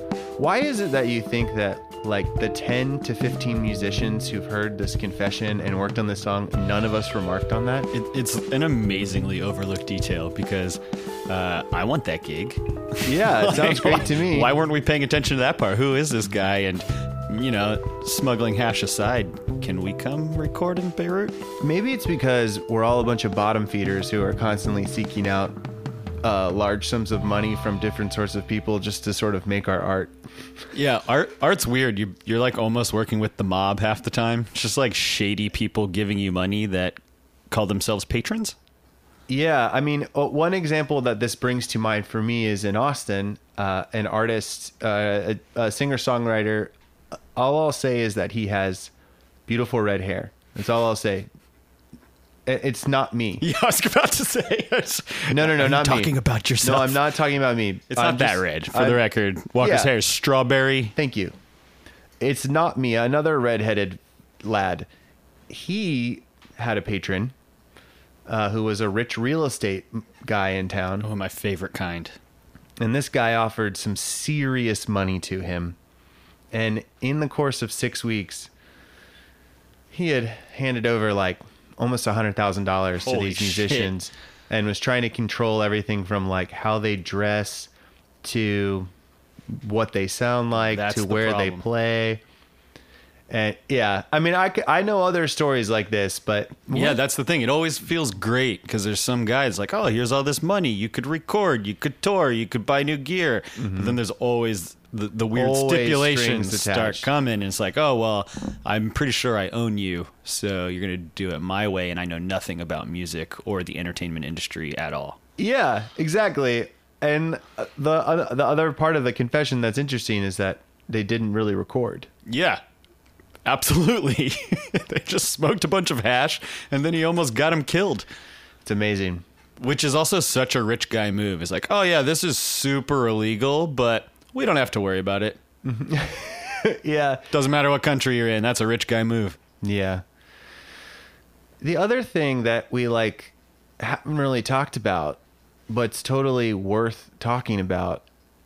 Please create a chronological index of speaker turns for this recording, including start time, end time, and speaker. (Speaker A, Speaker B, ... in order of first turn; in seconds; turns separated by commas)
Speaker A: 0.4-7.9, Speaker B: 7.9-21.4, Speaker A: 13.0-14.5, Speaker A: 21.6-25.6, Speaker A: 26.2-30.2, Speaker B: 30.7-37.0, Speaker B: 37.5-38.5, Speaker A: 39.3-46.7, Speaker A: 47.4-48.9, Speaker A: 49.5-51.3, Speaker A: 52.5-53.4, Speaker B: 53.4-57.1, Speaker A: 55.3-59.0, Speaker B: 57.9-60.9, Speaker A: 59.5-59.9, Speaker A: 60.9-61.4, Speaker A: 62.2-64.9, Speaker A: 65.5-67.3, Speaker A: 68.3-71.1, Speaker B: 71.0-72.2, Speaker A: 72.8-75.8, Speaker A: 76.5-78.5, Speaker A: 79.9-87.7, Speaker B: 83.0-84.0, Speaker A: 88.2-88.9, Speaker A: 89.5-92.2, Speaker B: 90.5-91.6, Speaker A: 93.3-97.0, Speaker B: 96.7-115.2, Speaker A: 103.6-104.0, Speaker A: 105.3-107.1, Speaker A: 115.4-122.1, Speaker B: 122.3-122.6, Speaker B: 123.4-128.1, Speaker A: 128.6-129.2, Speaker B: 129.6-135.4, Speaker A: 135.6-137.2, Speaker B: 137.3-139.4, Speaker A: 139.6-140.0, Speaker A: 141.6-148.0